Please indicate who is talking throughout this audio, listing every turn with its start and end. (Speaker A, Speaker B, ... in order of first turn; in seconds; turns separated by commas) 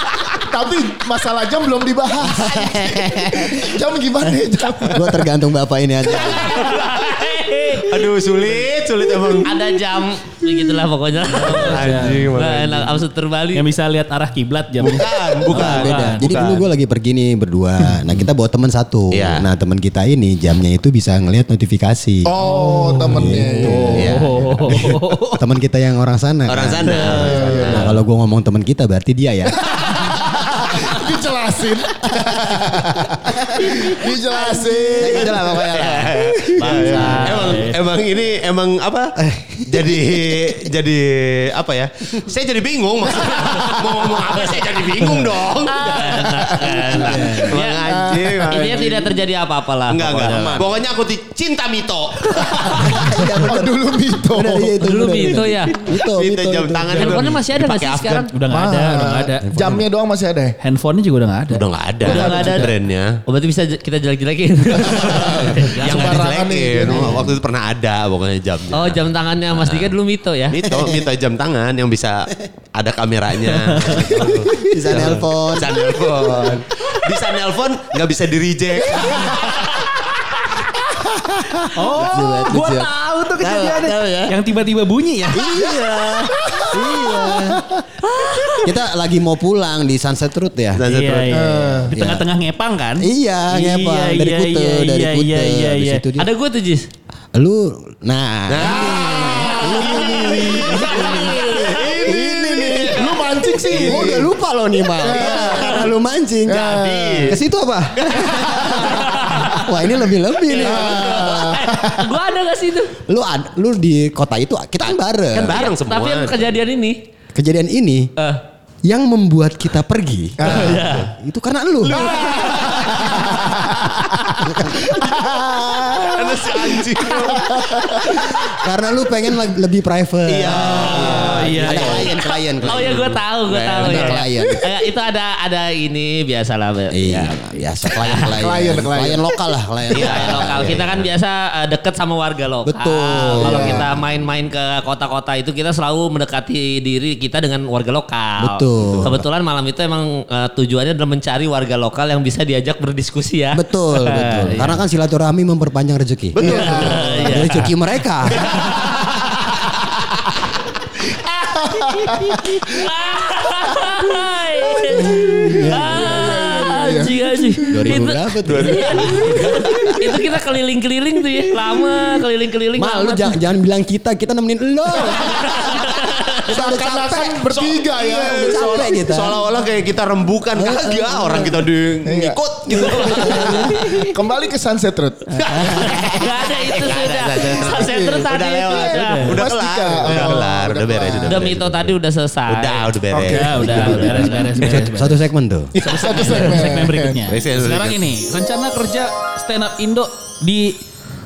Speaker A: 0.4-5.3, Speaker B: 2.3-3.6, Speaker B: 4.9-6.8, Speaker C: 6.1-8.1, Speaker D: 6.6-6.9, Speaker D: 7.7-9.6, Speaker C: 9.4-13.7, Speaker D: 11.4-13.0, Speaker E: 11.4-12.3, Speaker E: 13.5-16.3, Speaker B: 14.8-22.4, Speaker D: 14.9-16.7, Speaker D: 19.1-19.5, Speaker A: 22.2-24.2, Speaker E: 22.4-25.4, Speaker B: 23.0-30.1, Speaker D: 23.9-24.6, Speaker D: 26.5-27.9, Speaker E: 27.0-27.9, Speaker A: 27.0-27.9, Speaker A: 29.5-37.2, Speaker D: 34.9-39.1, Speaker B: 35.0-37.2, Speaker C: 36.6-37.7, Speaker E: 36.8-37.8, Speaker B: 39.2-40.6, Speaker D: 39.7-46.3, Speaker C: 45.6-50.7, Speaker A: 46.0-48.6, Speaker B: 47.0-47.5, Speaker D: 47.1-49.2, Speaker D: 49.9-52.9, Speaker B: 50.3-50.7, Speaker A: 52.6-52.9, Speaker B: 52.7-57.0, Speaker A: 53.5-54.8, Speaker C: 54.8-55.8, Speaker D: 56.0-58.3, Speaker C: 56.9-58.3, Speaker E: 58.3-59.7, Speaker A: 58.5-60.6, Speaker B: 59.4-59.8, Speaker E: 60.6-62.2, Speaker D: 61.5-63.2, Speaker C: 62.0-62.7, Speaker A: 62.0-62.7, Speaker C: 63.3-66.3, Speaker D: 64.9-69.9, Speaker A: 65.0-67.3, Speaker B: 66.9-67.3, Speaker C: 68.7-70.7, Speaker D: 70.5-79.4, Speaker B: 70.7-71.0, Speaker E: 73.7-74.1, Speaker B: 74.1-76.6, Speaker A: 78.9-79.5, Speaker B: 80.9-84.4, Speaker E: 81.7-85.6, Speaker B: 85.3-87.7, Speaker D: 85.6-86.2, Speaker A: 86.5-87.8, Speaker C: 88.2-88.6, Speaker B: 88.6-90.9, Speaker D: 90.8-91.4, Speaker E: 90.9-96.0, Speaker A: 91.3-91.9, Speaker B: 91.9-92.3, Speaker B: 93.0-96.3, Speaker C: 96.2-96.9, Speaker B: 97.3-103.1, Speaker D: 98.5-100.8, Speaker A: 98.6-104.3, Speaker C: 100.3-102.0, Speaker D: 101.7-103.1, Speaker D: 103.7-104.1, Speaker B: 103.7-106.7, Speaker A: 105.0-105.9, Speaker D: 105.1-105.8, Speaker A: 106.5-107.4, Speaker D: 106.5-107.4, Speaker B: 107.3-111.3, Speaker D: 108.0-108.9, Speaker A: 108.2-109.1, Speaker C: 108.8-109.6, Speaker C: 110.4-112.9, Speaker A: 110.6-112.1, Speaker B: 113.1-115.6, Speaker D: 115.3-116.6, Speaker C: 115.5-117.0, Speaker B: 117.3-118.1, Speaker C: 118.2-118.4, Speaker B: 118.9-123.4, Speaker A: 120.4-120.8, Speaker C: 120.4-121.1, Speaker D: 120.7-121.1, Speaker D: 121.8-122.9, Speaker A: 122.2-128.5, Speaker C: 122.2-122.9, Speaker B: 124.4-125.9, Speaker D: 126.1-128.1, Speaker B: 127.8-133.2, Speaker D: 130.3-134.2, Speaker C: 130.9-131.3, Speaker E: 131.1-132.1, Speaker C: 132.6-137.3, Speaker B: 133.8-134.6, Speaker A: 134.3-134.7, Speaker B: 136.9-140.8, Speaker C: 137.9-138.3, Speaker A: 138.3-139.4, Speaker D: 139.9-141.1, Speaker C: 140.0-154.8, Speaker B: 142.7-143.9, Speaker A: 143.4-143.9, Speaker B: 148.4-149.2, Speaker B: 153.5-158.6, Speaker D: 156.3-157.6, Speaker A: 156.4-157.2, Speaker C: 156.4-157.7, Speaker D: 158.3-159.0, Speaker A: 161.1-162.9, Speaker C: 161.6-173.4, Speaker A: 163.4-163.8, Speaker A: 164.7-168.0, Speaker B: 165.2-166.3, Speaker B: 167.7-170.0, Speaker D: 168.4-169.4, Speaker A: 169.2-170.1, Speaker B: 172.8-177.4, Speaker C: 175.3-176.5, Speaker A: 176.5-179.0, Speaker D: 176.6-183.7, Speaker B: 178.0-179.4, Speaker B: 180.5-181.6, Speaker A: 182.1-185.4, Speaker B: 182.7-184.0, Speaker B: 185.3-186.2, Speaker D: 185.4-194.5, Speaker C: 185.8-189.4, Speaker A: 187.6-191.4, Speaker E: 189.0-189.3, Speaker C: 191.2-194.6, Speaker A: 193.1-194.8, Speaker E: 193.1-195.2, Speaker B: 194.6-195.7, Speaker A: 195.7-197.2, Speaker E: 195.8-200.8, Speaker D: 197.3-198.1